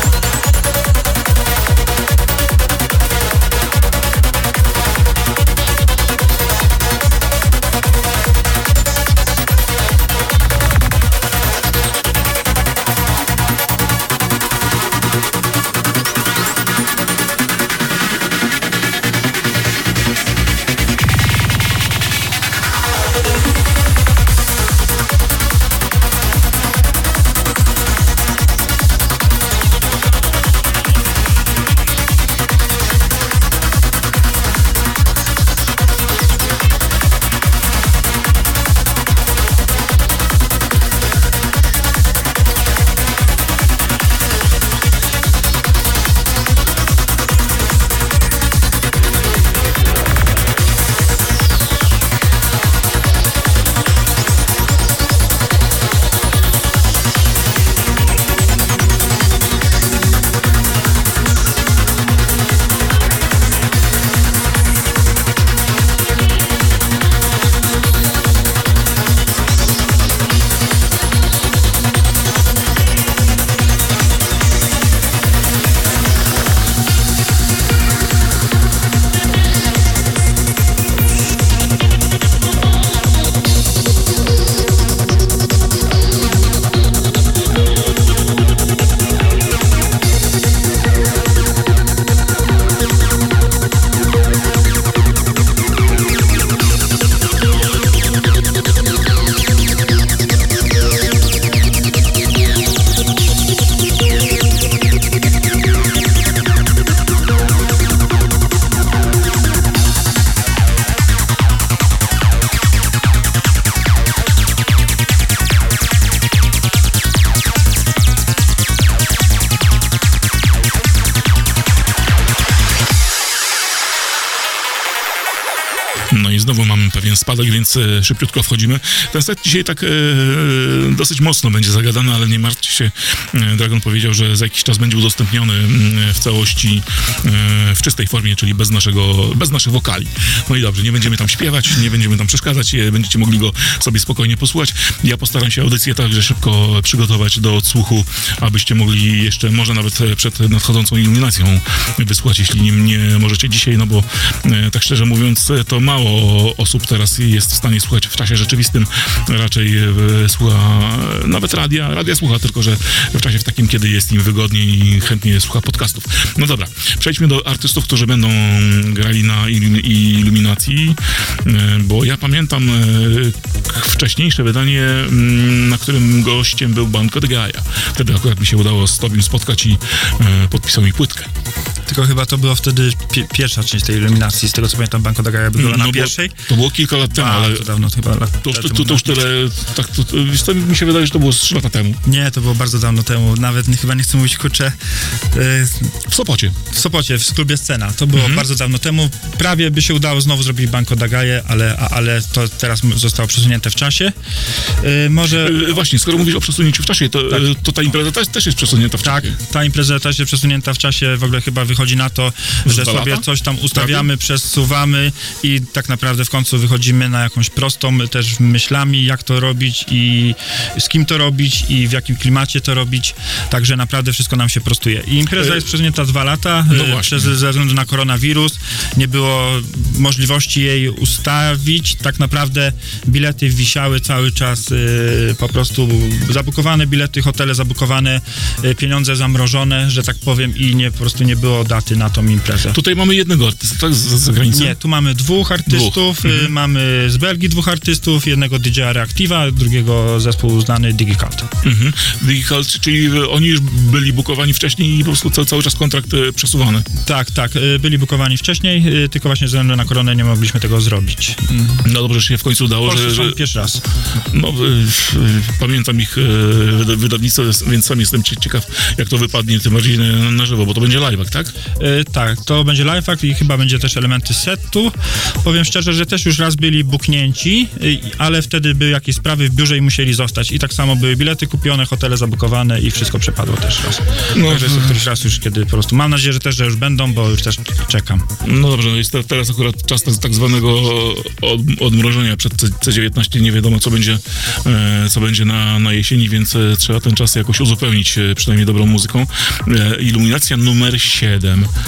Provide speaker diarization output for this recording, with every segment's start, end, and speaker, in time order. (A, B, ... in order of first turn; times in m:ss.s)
2:06.1-3:01.3 A
3:01.9-3:06.3 B
3:05.6-3:07.7 A
3:07.1-3:09.2 B
3:08.4-3:12.0 A
3:12.0-3:14.8 B
3:15.3-3:15.9 B
3:16.1-3:16.5 A
3:16.7-3:24.1 B
3:18.1-3:18.4 A
3:24.8-3:25.7 B
3:25.3-3:29.3 A
3:29.0-4:02.8 B
3:32.6-3:34.1 A
3:45.4-3:45.6 A
3:46.7-3:47.3 A
4:02.7-4:04.7 A
4:04.5-4:11.5 B
4:05.7-4:06.5 A
4:11.6-4:16.8 A
4:17.0-4:21.8 B
4:21.8-4:23.4 A
4:22.8-4:23.8 B
4:24.3-4:31.5 A
4:31.8-4:48.2 B
4:44.3-4:45.0 A
4:48.4-5:01.7 A